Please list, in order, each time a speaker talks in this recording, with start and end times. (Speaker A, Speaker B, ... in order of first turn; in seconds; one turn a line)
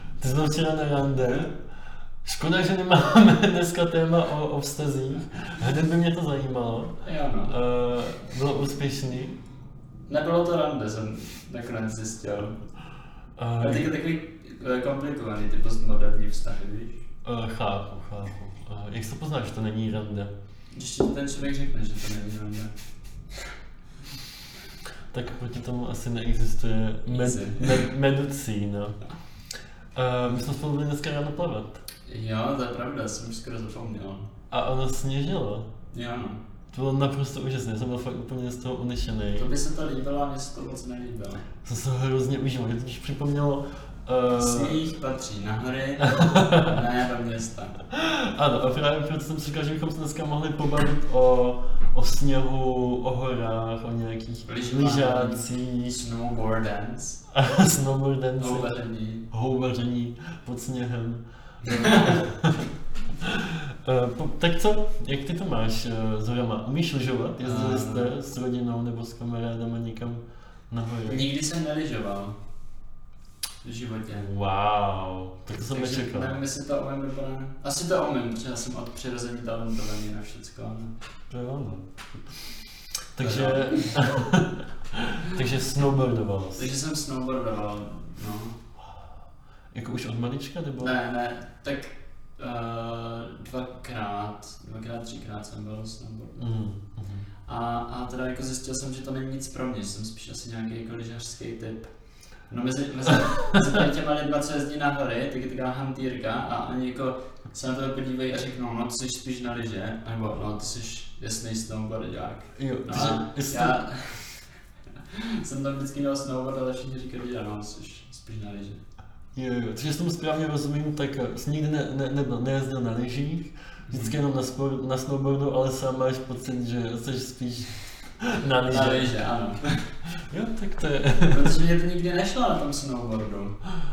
Speaker A: 0.2-1.5
Speaker A: 2.2-6.9
Speaker B: 7.0-7.5
Speaker A: 7.5-9.4
Speaker B: 10.1-12.5
Speaker A: 13.4-13.9
Speaker B: 13.6-17.0
Speaker A: 17.2-20.3
Speaker B: 20.7-22.7
Speaker A: 25.1-29.0
Speaker B: 27.1-27.9
Speaker A: 29.9-31.8
Speaker B: 32.1-34.2
Speaker A: 34.5-35.7
Speaker B: 35.9-36.4
Speaker A: 36.7-39.5
Speaker B: 39.4-41.4
Speaker A: 41.6-44.8
Speaker B: 44.4-47.8
Speaker A: 46.1-46.8
Speaker A: 47.9-56.0
Speaker B: 54.5-57.2
Speaker A: 57.3-58.7
Speaker B: 58.4-59.3
Speaker A: 59.3-62.7
Speaker B: 61.6-62.2
Speaker A: 63.2-71.3
Speaker B: 67.4-68.2
Speaker B: 71.0-72.4
Speaker B: 73.6-74.3
Speaker A: 74.2-76.4
Speaker B: 75.5-80.9
Speaker A: 81.3-82.1
Speaker A: 83.1-86.6
Speaker B: 83.2-83.9
Speaker B: 86.5-88.6
Speaker A: 89.7-90.9
Speaker B: 90.8-96.5
Speaker A: 96.4-97.2
Speaker B: 97.5-101.9
Speaker B: 102.5-114.3
Speaker A: 112.5-113.8
Speaker B: 115.1-118.8
Speaker A: 119.3-129.1
Speaker B: 123.9-124.2
Speaker B: 128.7-129.7
Speaker A: 130.3-131.6
Speaker B: 131.3-133.6